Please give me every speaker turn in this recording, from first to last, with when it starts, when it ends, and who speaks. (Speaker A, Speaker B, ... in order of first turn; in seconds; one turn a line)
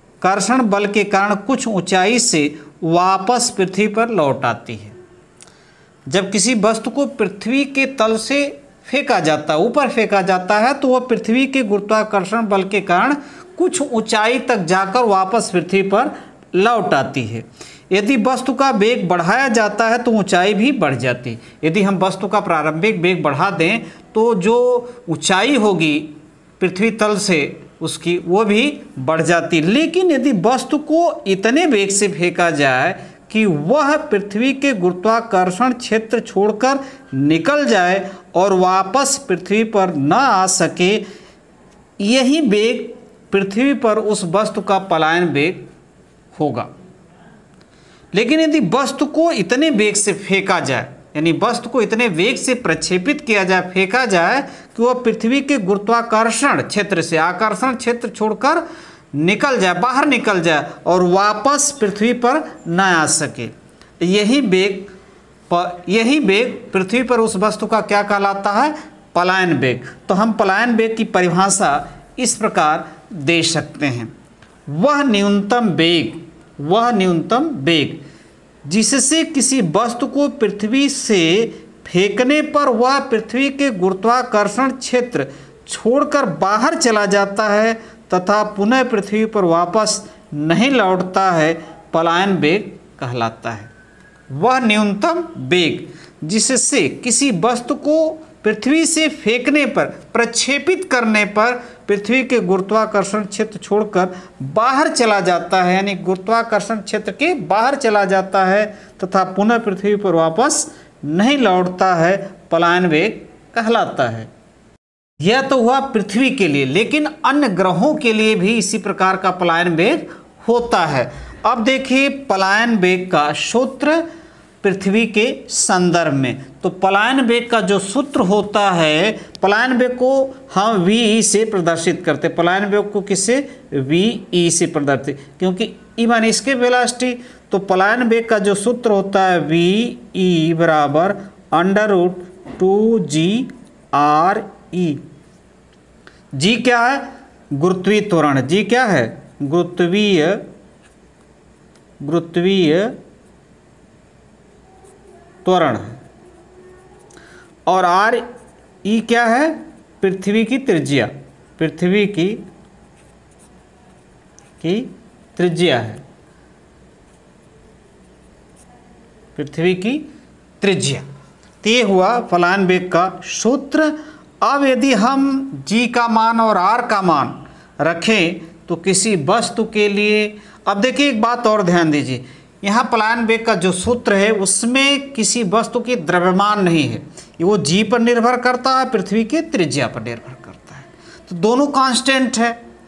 Speaker A: 0.2-5.0
Speaker A: 6.1-41.0
Speaker A: 42.0-45.6
Speaker A: 46.3-46.7
Speaker A: 48.1-64.9
Speaker A: 65.5-74.1
Speaker A: 74.7-78.0
Speaker A: 78.6-93.7
Speaker A: 94.3-114.3
Speaker A: 115.2-124.0
Speaker A: 124.6-145.0
Speaker A: 146.4-150.4
Speaker A: 152.0-152.9
Speaker A: 155.4-156.0
Speaker A: 157.7-158.2
Speaker A: 158.8-162.4
Speaker A: 164.6-166.0
Speaker A: 169.3-170.1
Speaker A: 170.6-171.1
Speaker A: 171.6-192.6